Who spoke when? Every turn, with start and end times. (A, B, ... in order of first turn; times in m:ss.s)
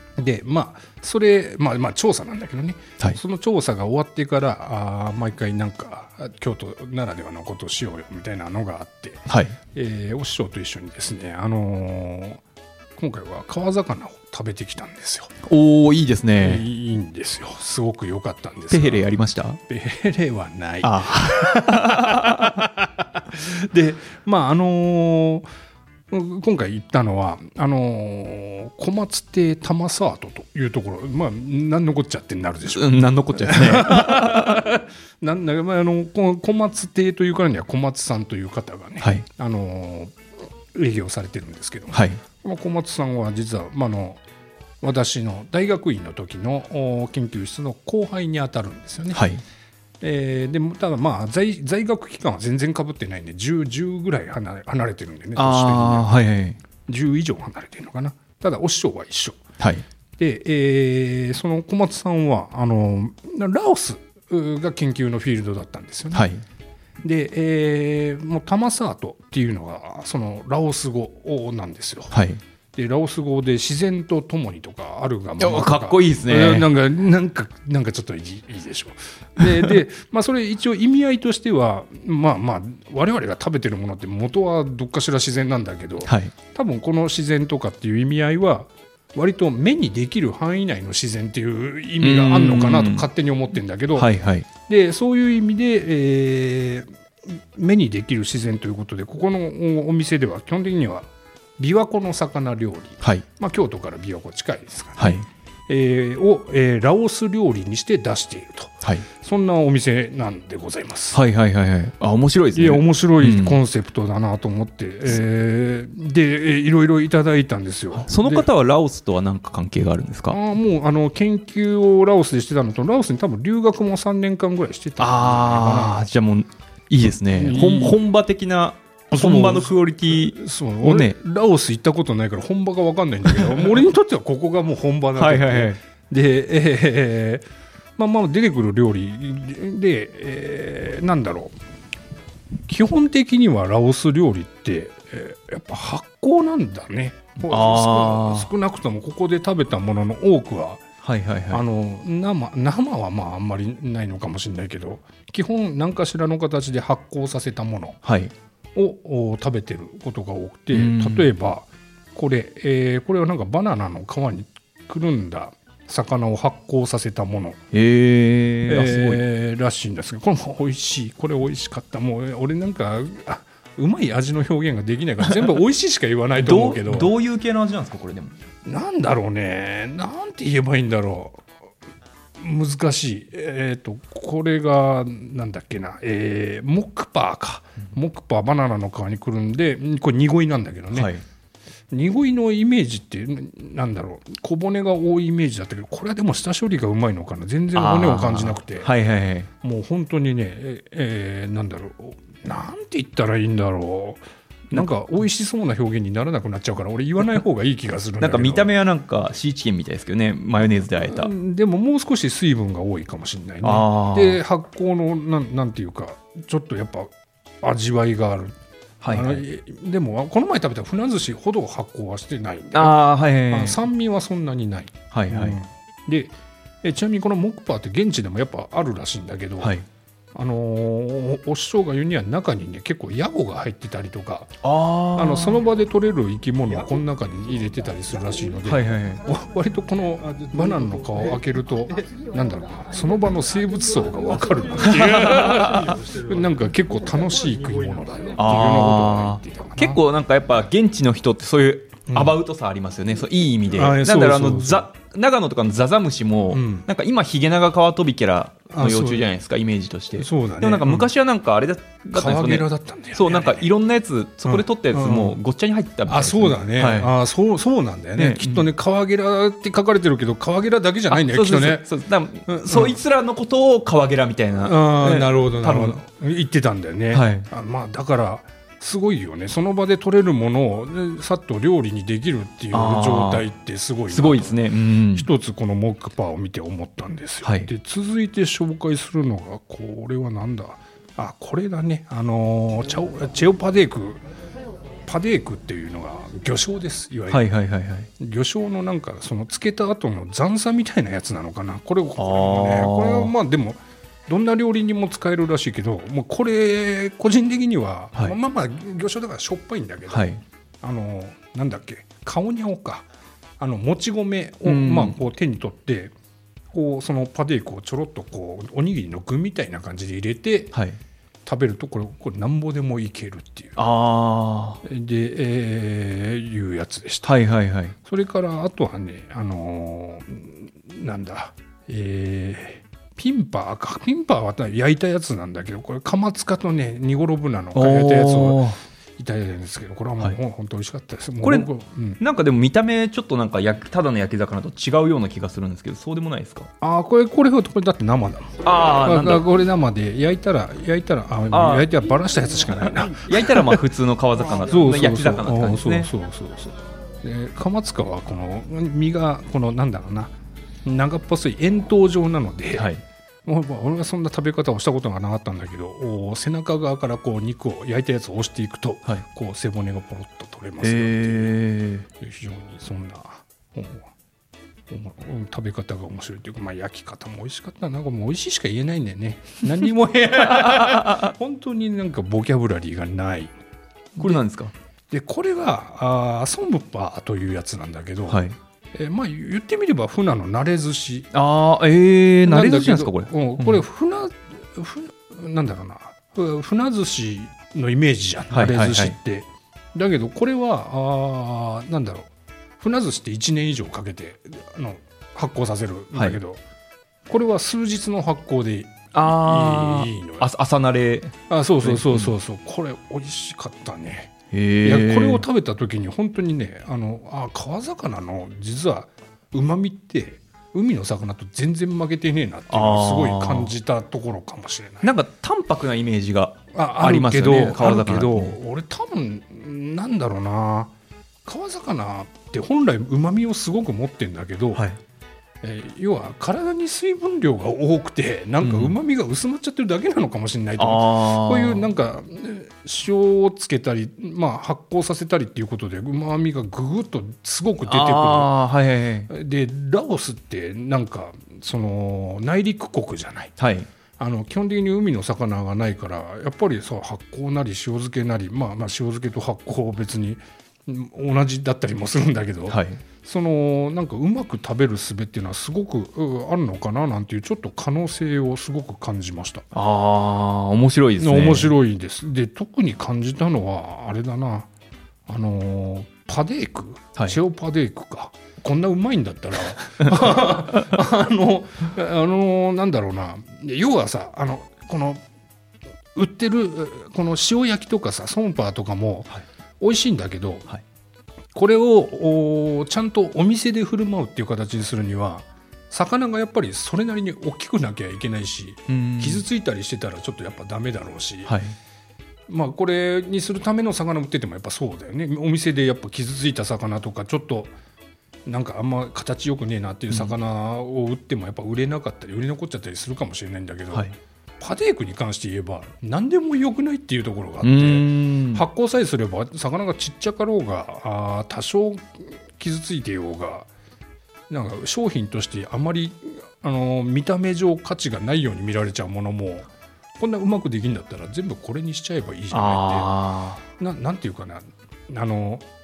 0:00.2-0:12.4 A
0:09.3-0:09.6 B
0:13.0-0:15.3 A
0:15.4-0:16.6 B
0:16.4-0:19.1 A
0:18.7-0:19.6 B
0:19.7-0:25.4 A
0:20.8-0:22.6 B
0:26.1-0:40.2 A
0:32.7-0:34.6 B
0:40.7-0:44.2 A
0:41.9-0:42.2 B
0:44.8-0:49.2 A
0:49.1-0:49.4 B
0:50.0-0:56.1 A
0:55.3-0:56.6 B
0:56.9-0:59.4 A
0:59.6-0:59.8 B
1:00.2-1:06.3 A
1:06.1-1:06.4 B
1:07.0-1:12.2 A
1:12.1-1:12.4 B
1:12.7-1:34.1 A
1:15.4-1:16.7 B
1:26.0-1:26.3 B
1:32.0-1:33.1 B
1:33.9-1:34.5 B
1:34.6-1:41.1 A
1:41.6-1:51.2 A
1:45.0-1:45.2 B
1:51.1-1:53.6 B
1:52.5-1:58.5 A
1:58.0-2:00.4 B
2:00.3-2:06.1 A
2:05.0-2:11.2 B
2:07.3-2:08.0 A
2:09.1-2:17.4 A
2:13.4-2:13.7 B
2:15.1-2:15.8 B
2:18.0-2:21.5 A
2:22.7-2:30.8 A
2:27.4-2:28.5 B
2:31.0-2:31.6 B
2:31.5-2:38.0 A
2:38.0-2:38.3 B
2:38.7-2:47.6 A
2:40.7-2:41.3 B
2:47.7-2:49.2 B
2:48.7-2:57.1 A
2:56.3-2:58.4 B
2:58.6-3:01.4 A
3:02.4-3:11.1 A
3:10.9-3:11.2 B
3:11.9-3:18.9 A
3:17.7-3:19.5 B
3:19.6-3:28.7 A
3:28.2-3:31.3 B
3:30.9-3:37.1 A
3:33.6-3:34.4 B
3:37.6-3:38.6 A
3:39.0-3:39.4 B
3:39.1-3:49.8 A
3:42.7-3:43.8 B
3:45.1-3:45.6 B
3:49.6-3:49.8 B
3:50.3-3:54.6 A
3:54.6-3:55.6 B
3:55.1-4:10.0 A
3:58.6-3:59.2 B
4:05.2-4:05.9 B
4:08.4-4:27.1 B
4:12.1-4:12.4 A
4:13.7-4:14.9 A
4:16.5-4:16.9 A
4:18.7-4:19.3 A
4:20.1-4:21.1 A
4:22.1-4:23.7 A
4:24.4-4:25.4 A
4:26.1-4:31.9 A
4:28.2-4:28.7 B
4:31.1-4:36.0 B
4:32.5-4:33.0 A
4:34.6-4:54.2 A
4:37.1-4:37.5 B
4:42.7-4:43.5 B
4:44.1-4:45.3 B
4:47.4-4:47.7 B
4:55.0-4:57.4 A
4:57.3-4:58.1 B
4:58.2-5:13.1 A
5:02.2-5:03.3 B
5:10.1-5:10.4 B
5:13.6-5:16.1 A
5:14.6-5:15.2 B
5:16.7-5:20.7 A
5:20.7-5:21.0 B
5:21.4-5:23.8 A
5:23.8-5:24.8 B
5:24.8-5:27.3 A
5:27.2-5:27.9 B
5:28.0-5:38.6 A
5:37.7-5:38.8 B
5:39.2-5:42.2 A
5:41.4-5:41.7 B
5:42.2-5:46.7 B
5:46.8-5:53.8 A
5:48.6-5:49.4 B
5:51.5-5:51.9 B
5:53.2-5:56.1 B
5:54.6-6:00.3 A
6:00.8-6:02.9 A
6:02.8-6:03.0 B
6:03.4-6:11.6 A
6:10.8-6:12.0 B
6:12.2-6:14.1 A
6:14.9-6:23.5 A
6:20.7-6:21.3 B
6:24.2-6:24.4 A
6:24.2-6:24.7 B
6:25.1-6:28.4 A
6:28.3-6:28.6 B
6:28.9-6:31.3 A
6:31.3-6:33.8 B
6:32.4-6:46.6 A
6:38.5-6:39.2 B
6:47.3-6:50.5 A
6:49.1-6:52.3 B
6:51.5-6:54.3 A
6:54.5-6:55.4 B
6:54.8-7:05.1 A
7:02.7-7:03.7 B
7:05.0-7:08.6 B
7:06.7-7:10.9 A
7:11.4-7:14.8 A
7:14.7-7:15.0 B
7:15.6-7:28.6 A
7:18.6-7:19.0 B
7:20.8-7:21.9 B
7:27.9-7:29.3 B
7:29.3-7:33.5 A
7:33.6-7:33.9 B
7:34.2-7:49.6 A
7:42.7-7:43.0 B
7:49.7-7:51.7 B
7:51.2-7:54.7 A
7:55.3-8:05.2 A
8:06.1-8:10.7 A
8:11.5-8:21.6 A
8:18.9-8:19.4 B
8:21.5-8:21.8 B
8:22.5-8:27.7 A
8:28.4-8:43.7 A
8:30.1-8:30.4 B
8:37.6-8:38.6 B
8:44.5-8:53.1 A
8:52.5-8:53.6 B
8:53.6-8:55.6 A